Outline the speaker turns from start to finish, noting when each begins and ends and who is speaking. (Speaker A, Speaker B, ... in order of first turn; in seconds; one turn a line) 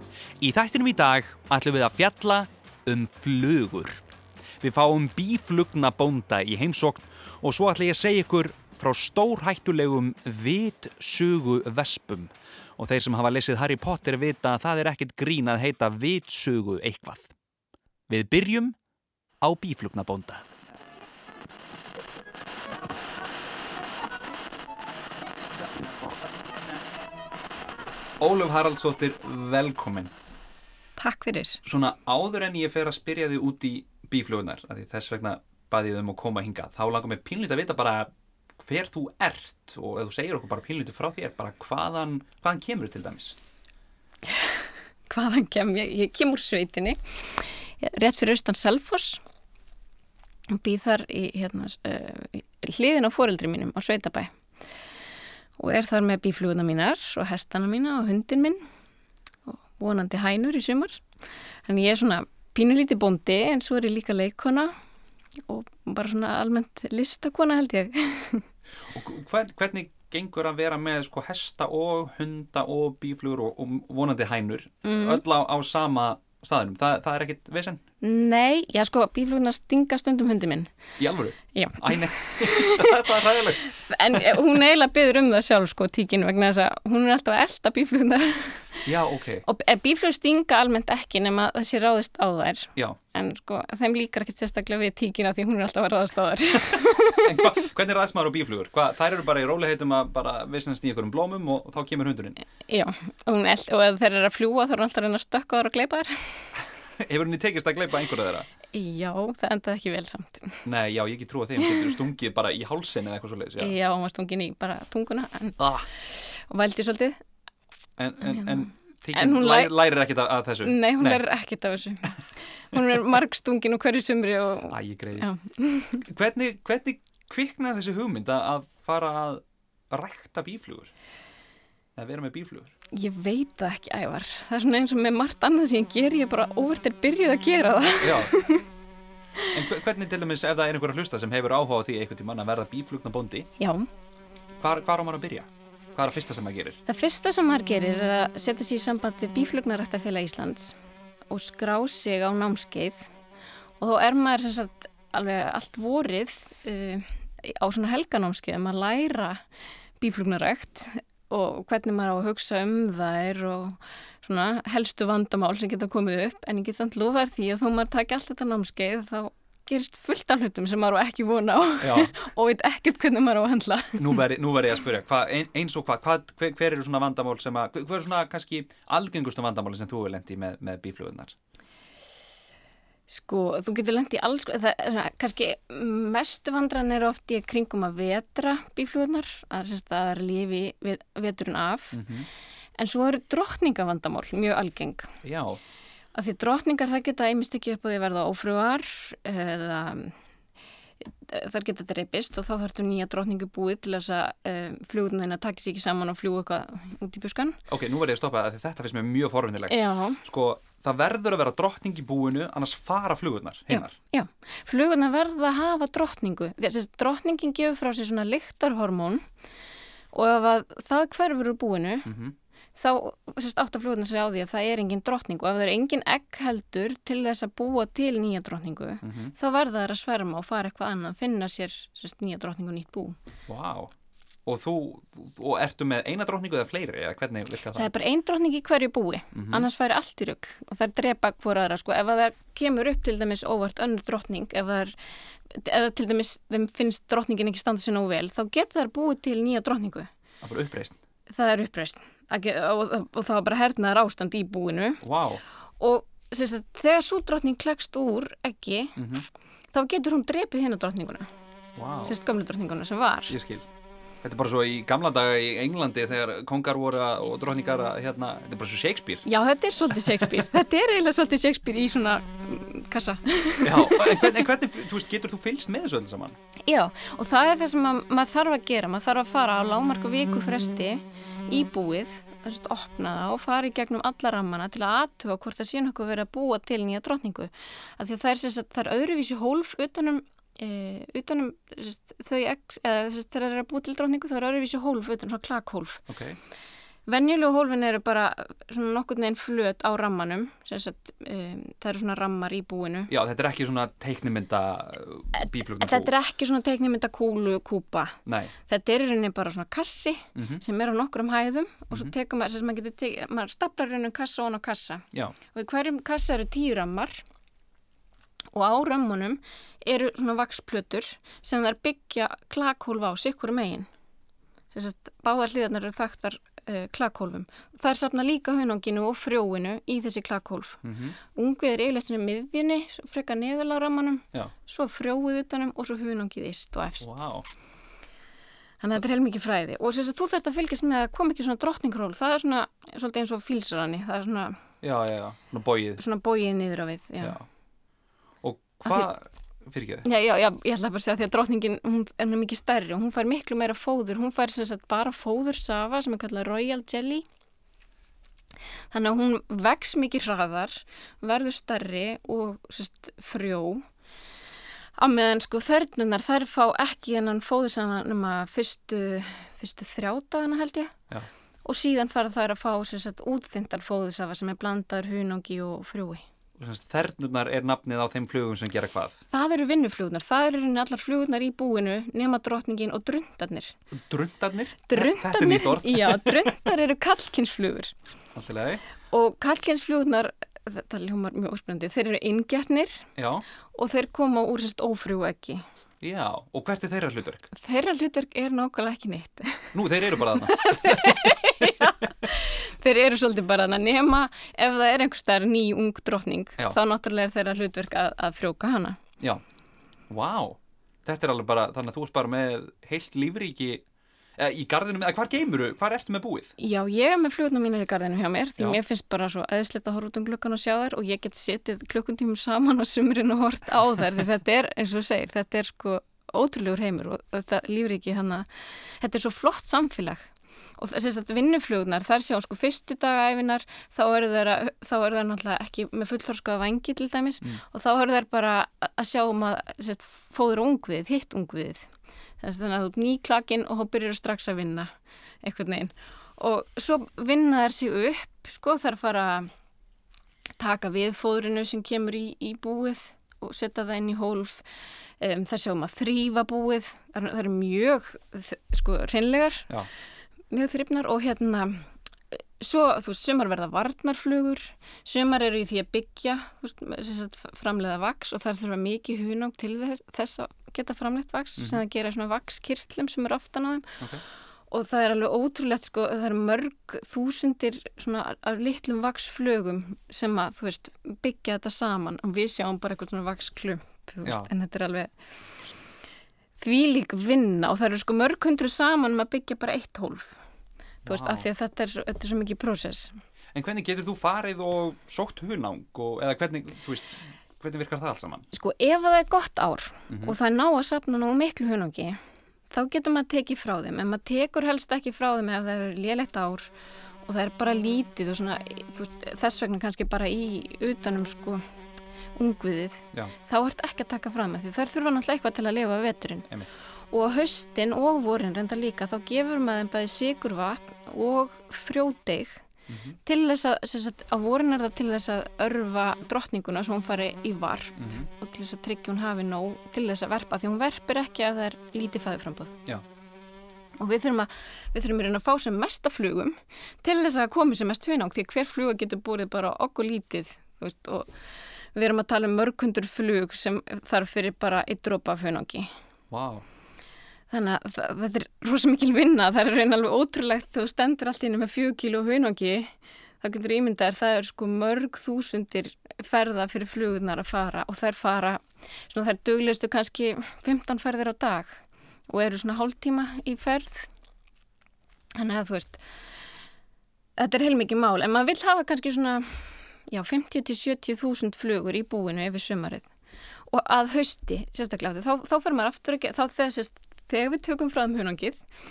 Speaker A: 0.4-4.0
Speaker A: 4.6-17.3
Speaker A: 18.1-18.8
Speaker A: 19.4-20.4
Speaker A: 28.2-30.1
Speaker B: 31.0-31.6
Speaker A: 31.6-43.4
Speaker B: 44.3-49.2
Speaker B: 50.5-54.3
Speaker B: 55.6-58.6
Speaker B: 59.5-61.0
Speaker B: 61.7-64.7
Speaker B: 65.5-68.5
Speaker A: 68.9-77.8
Speaker B: 74.8-75.2
Speaker B: 78.0-80.7
Speaker A: 81.0-83.7
Speaker B: 81.5-88.9
Speaker A: 88.9-89.5
Speaker B: 89.5-97.5
Speaker A: 97.2-102.4
Speaker B: 102.7-106.5
Speaker A: 106.6-108.5
Speaker B: 108.7-110.7
Speaker A: 110.7-113.8
Speaker B: 111.6-111.9
Speaker B: 113.6-117.2
Speaker A: 115.6-115.9
Speaker A: 118.0-121.2
Speaker B: 118.2-119.7
Speaker B: 120.6-126.1
Speaker A: 124.7-125.3
Speaker A: 126.0-130.9
Speaker A: 132.0-132.7
Speaker B: 132.9-138.7
Speaker A: 138.0-138.4
Speaker A: 139.5-143.5
Speaker B: 143.6-143.9
Speaker A: 144.6-146.8
Speaker B: 146.9-150.8
Speaker B: 151.3-153.0
Speaker B: 153.8-159.4
Speaker B: 160.0-174.2
Speaker A: 171.8-172.1
Speaker A: 174.0-181.3
Speaker B: 183.1-192.0
Speaker A: 191.9-192.3
Speaker B: 192.8-195.2
Speaker A: 195.2-195.6
Speaker B: 196.1-200.2
Speaker B: 201.0-207.6
Speaker A: 207.7-214.0
Speaker B: 209.7-210.2
Speaker B: 213.7-219.3
Speaker B: 220.1-222.1
Speaker A: 222.1-222.3
Speaker B: 222.8-233.2
Speaker A: 229.0-229.3
Speaker A: 233.5-233.9
Speaker A: 234.5-237.9
Speaker B: 237.7-245.0
Speaker A: 239.3-239.7
Speaker B: 245.5-250.1
Speaker A: 250.4-251.0
Speaker B: 251.3-255.0
Speaker A: 255.0-255.4
Speaker B: 255.8-259.1
Speaker A: 259.0-259.3
Speaker B: 259.7-261.3
Speaker A: 261.8-262.2
Speaker B: 262.0-263.4
Speaker A: 263.3-263.7
Speaker A: 264.2-269.3
Speaker B: 269.2-274.4
Speaker A: 270.0-270.4
Speaker A: 273.6-276.4
Speaker B: 276.7-296.0
Speaker A: 296.1-296.4
Speaker B: 297.1-303.1
Speaker A: 303.1-306.1
Speaker B: 305.4-317.2
Speaker A: 308.3-308.5
Speaker A: 310.4-310.6
Speaker B: 318.5-323.9
Speaker B: 324.7-337.1
Speaker A: 330.8-331.2
Speaker A: 337.0-337.5
Speaker B: 338.8-344.6
Speaker A: 344.8-346.0
Speaker B: 346.0-347.4
Speaker A: 348.4-350.1
Speaker B: 350.0-357.2
Speaker B: 358.9-363.9
Speaker B: 365.0-371.0
Speaker B: 371.6-376.2
Speaker A: 376.6-379.2
Speaker B: 379.3-383.8
Speaker A: 383.9-386.5
Speaker B: 384.9-387.9
Speaker A: 388.4-388.8
Speaker B: 389.1-393.1
Speaker A: 393.2-393.5
Speaker B: 393.7-395.6
Speaker A: 396.0-397.5
Speaker B: 397.5-409.0
Speaker A: 399.7-401.4
Speaker A: 410.1-413.8
Speaker A: 414.4-416.5
Speaker B: 416.6-441.9
Speaker B: 442.4-449.5
Speaker B: 450.6-459.7
Speaker B: 460.5-474.0
Speaker A: 471.6-471.8
Speaker B: 474.7-485.1
Speaker A: 484.2-484.5
Speaker B: 486.6-490.4
Speaker B: 491.0-493.2
Speaker A: 491.1-491.5
Speaker A: 493.5-498.4
Speaker B: 498.5-502.2
Speaker A: 500.1-500.4
Speaker B: 502.7-506.7
Speaker B: 507.2-511.6
Speaker B: 512.4-516.5
Speaker B: 517.1-522.6
Speaker A: 522.9-523.2
Speaker B: 523.2-532.8
Speaker A: 528.0-528.3
Speaker B: 534.0-541.3
Speaker B: 541.9-545.9
Speaker A: 546.3-546.6
Speaker B: 547.5-564.1
Speaker B: 565.4-566.0
Speaker B: 567.4-573.1
Speaker B: 573.7-578.7